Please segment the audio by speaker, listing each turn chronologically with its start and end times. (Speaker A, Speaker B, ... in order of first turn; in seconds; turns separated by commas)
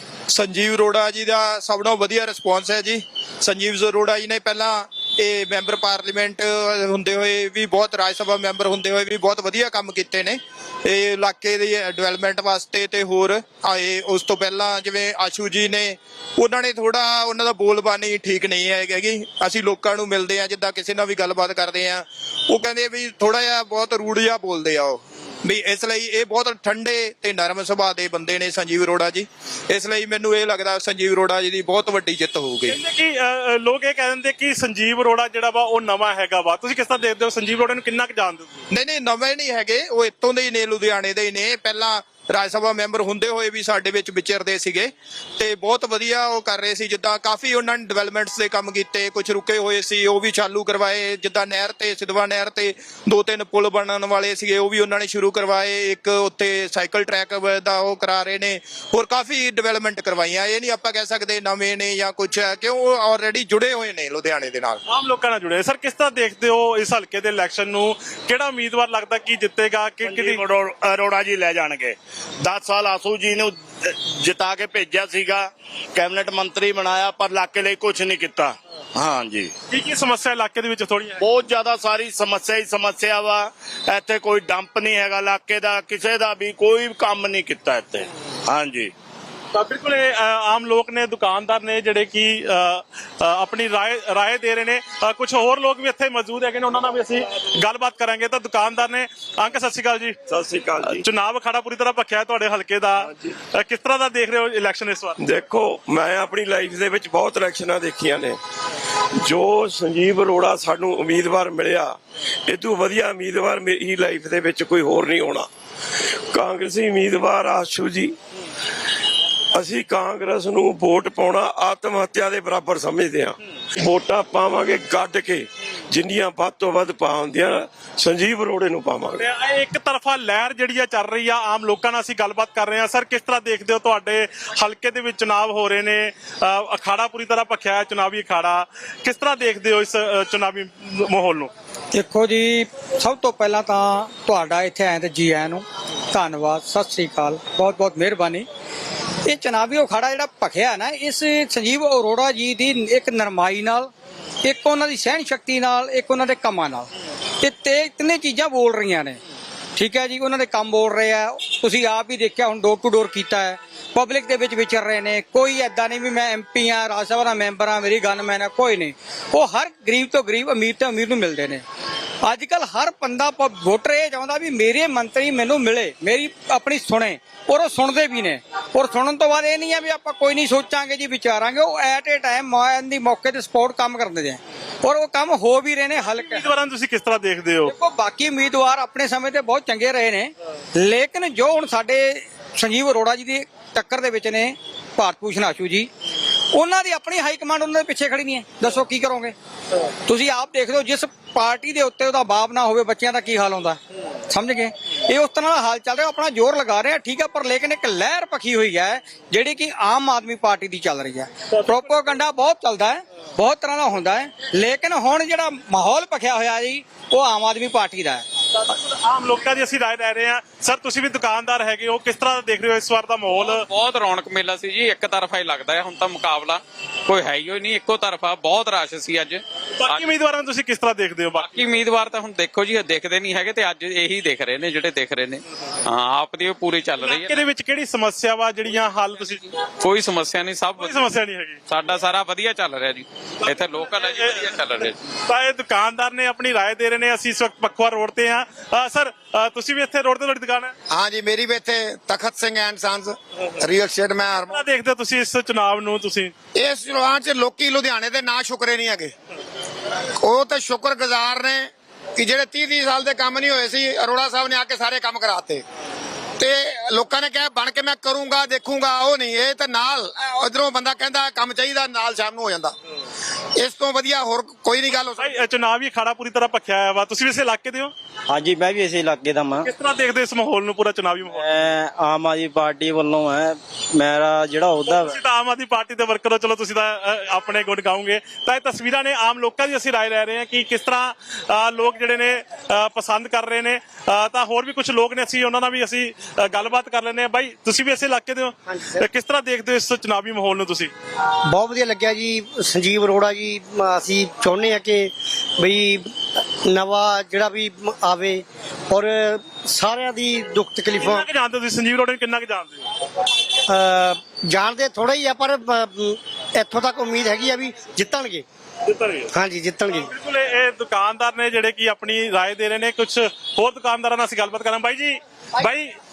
Speaker A: 0.3-32.8, Speaker B: 32.7-38.6, Speaker A: 38.7-64.8, Speaker B: 64.9-70.4, Speaker C: 70.1-79.5, Speaker B: 79.7-81.2, Speaker C: 81.2-88.9, Speaker B: 89.5-100.2, Speaker D: 100.3-101.0, Speaker B: 100.9-105.2, Speaker D: 103.1-103.3, Speaker D: 105.2-108.4, Speaker D: 109.2-115.5, Speaker D: 116.3-118.1, Speaker D: 119.5-129.3, Speaker B: 129.2-141.5, Speaker E: 141.9-148.5, Speaker E: 149.2-153.9, Speaker E: 154.4-156.9, Speaker E: 157.4-159.2, Speaker E: 159.8-171.6, Speaker E: 172.3-186.5, Speaker B: 185.9-187.7, Speaker E: 187.6-195.9, Speaker E: 196.5-199.3, Speaker E: 200.1-218.2, Speaker B: 218.6-223.6, Speaker F: 223.4-230.1, Speaker B: 229.8-231.6, Speaker F: 231.4-237.4, Speaker B: 237.0-239.5, Speaker F: 239.3-241.1, Speaker B: 240.8-241.6, Speaker F: 241.7-245.0, Speaker B: 243.4-244.5, Speaker B: 245.2-250.7, Speaker G: 250.9-254.6, Speaker B: 254.3-256.3, Speaker G: 256.5-259.1, Speaker G: 260.2-265.6, Speaker G: 266.4-272.7, Speaker G: 273.6-275.3, Speaker B: 275.2-277.9, Speaker H: 278.3-279.7, Speaker B: 279.6-281.5, Speaker H: 281.3-285.1, Speaker B: 284.9-300.9, Speaker I: 298.7-299.0, Speaker I: 301.4-311.3, Speaker B: 311.0-312.9, Speaker I: 313.7-318.4, Speaker B: 318.9-319.3, Speaker I: 319.3-320.1, Speaker B: 319.9-325.9